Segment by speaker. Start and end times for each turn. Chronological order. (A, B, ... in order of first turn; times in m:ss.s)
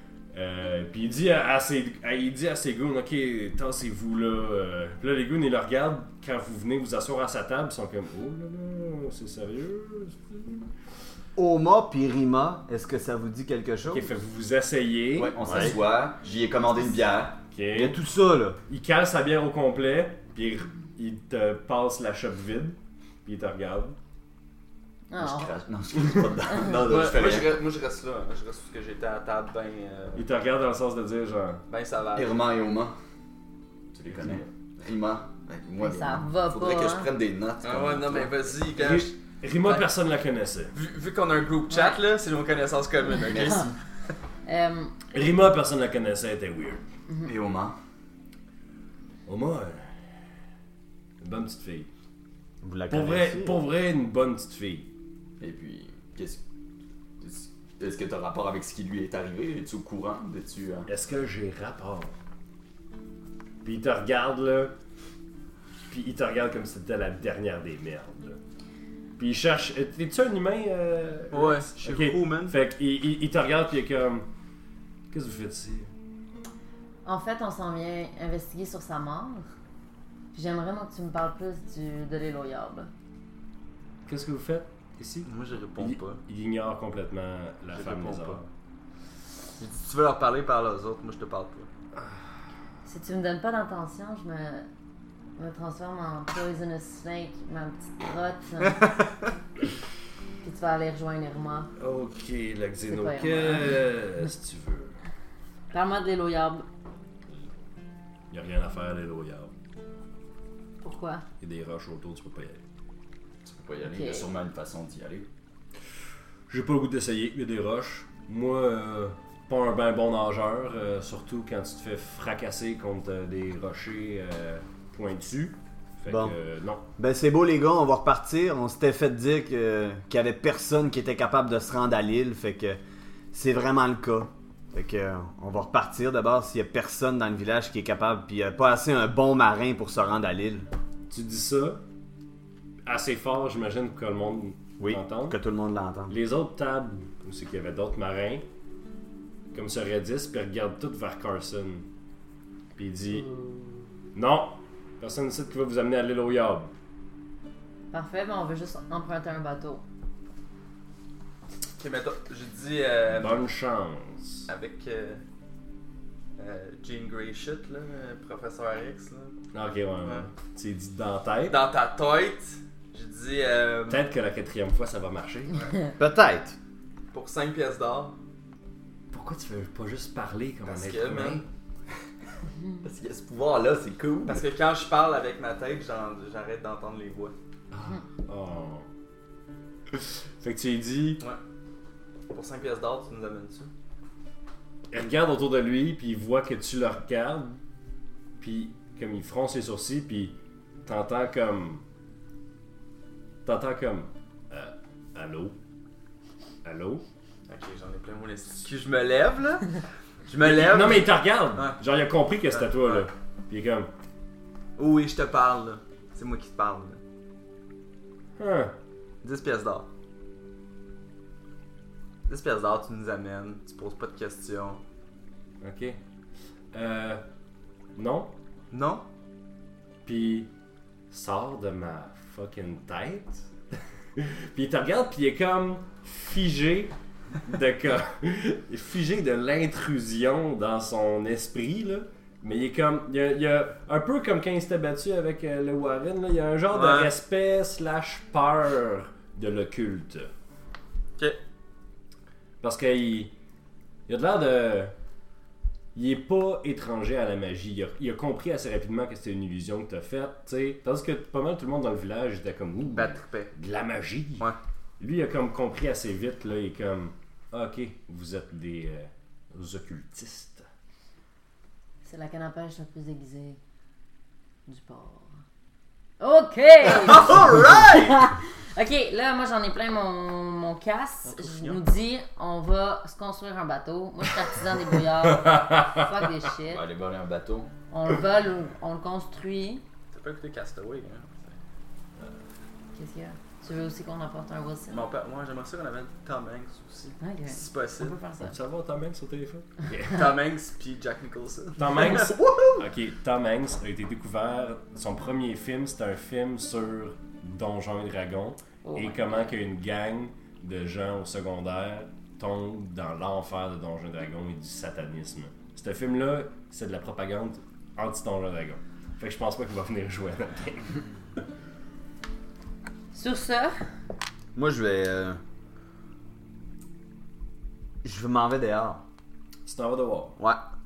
0:00.3-0:10.7 A
0:11.4-0:14.1 B
0:13.9-0:15.8 A
0:15.1-0:17.4 C
0:17.5-0:18.0 A
0:17.7-0:18.6 B
0:18.7-0:24.0 A
0:25.1-0:25.5 D
0:25.2-0:27.6 C
0:26.7-0:30.2 E
0:30.1-0:31.6 A
0:31.7-0:32.4 E
0:32.1-0:33.0 C
0:33.9-0:38.5 C
0:34.1-0:34.4 A
0:35.8-0:37.1 D
0:37.6-0:39.9 E
0:38.7-0:40.8 A
0:40.7-0:43.8 E
0:41.7-0:42.0 D
0:43.2-0:43.7 C
0:43.2-0:43.6 D
0:44.4-0:45.0 D
0:45.1-0:46.8 A
0:47.2-0:47.8 C
0:49.2-0:50.0 A
0:51.2-0:51.9 A
0:52.6-0:53.6 B
0:52.9-0:54.9 A
0:55.4-0:56.4 C
0:57.2-1:00.9 C
1:00.9-1:02.1 A
1:03.6-1:04.7 A
1:05.9-1:08.4 A
1:09.2-1:14.3 A
1:11.3-1:12.6 E
1:15.1-1:15.9 A
1:17.0-1:19.4 D
1:20.3-1:22.9 D
1:24.0-1:28.5 A
1:25.2-1:26.2 E
1:27.7-1:28.4 E
1:29.6-1:31.7 E
1:32.8-1:34.6 D
1:35.4-1:38.8 D
1:40.4-1:41.7 D
1:41.8-1:44.9 A
1:42.9-1:43.7 D
1:45.7-1:46.6 D
1:48.3-1:49.5 A
1:50.8-1:51.2 D
1:51.4-1:52.6 A
1:53.4-1:55.3 C
1:53.8-1:54.3 D
1:56.5-2:06.8 A
2:06.1-2:06.3 B
2:07.0-2:12.8 B
2:13.3-2:20.7 B
2:21.1-2:21.8 A
2:22.8-2:25.4 A
2:24.8-2:26.2 B
2:26.1-2:28.4 A
2:29.5-2:31.9 A
2:32.8-2:33.4 A
2:34.1-2:36.7 A
2:37.9-2:39.8 D
2:41.8-2:43.4 E
2:43.1-2:44.5 A
2:44.5-2:45.2 E
2:46.4-2:49.4 E
2:49.5-2:51.6 A
2:51.5-2:54.0 E
2:53.9-2:55.7 A
2:56.0-2:56.6 B
2:57.1-2:58.2 E
2:59.1-3:01.4 A
3:00.6-3:01.4 E
3:02.8-3:04.4 C
3:04.2-3:07.3 E
3:07.7-3:08.8 A
3:09.9-3:11.2 A
3:12.3-3:13.7 E
3:14.9-3:17.6 A
3:18.4-3:21.8 A
3:23.4-3:25.6 A
3:26.6-3:27.0 A
3:27.5-3:31.8 E
3:30.4-3:33.9 A
3:32.5-3:33.1 E
3:34.8-3:37.0 E
3:38.4-3:38.7 A
3:39.2-3:39.9 E
3:42.3-3:44.8 E
3:45.6-3:46.0 A
3:46.7-3:47.2 A
3:47.9-3:48.3 A
3:48.7-3:49.0 E
3:50.0-3:50.5 A
3:51.1-4:10.3 A
4:06.7-4:07.1 E
4:12.6-4:13.3 A
4:14.1-4:14.9 A
4:15.9-4:30.6 A
4:22.9-4:23.5 E
4:32.0-4:33.6 D
4:34.7-4:35.4 D
4:36.2-4:46.8 D
4:37.0-4:38.1 E
4:41.2-4:41.8 E
4:45.2-4:46.1 A
4:46.7-4:47.7 C
4:47.9-4:49.8 D
4:50.1-4:51.6 E
4:52.9-4:55.0 D
4:54.9-4:58.2 E
4:57.2-4:58.5 D
4:58.4-5:00.4 A
5:00.1-5:02.4 E
5:01.8-5:21.1 A
5:08.8-5:09.5 D
5:23.1-5:23.8 D
5:24.5-5:25.4 B
5:28.0-5:29.0 B
5:29.6-5:30.4 A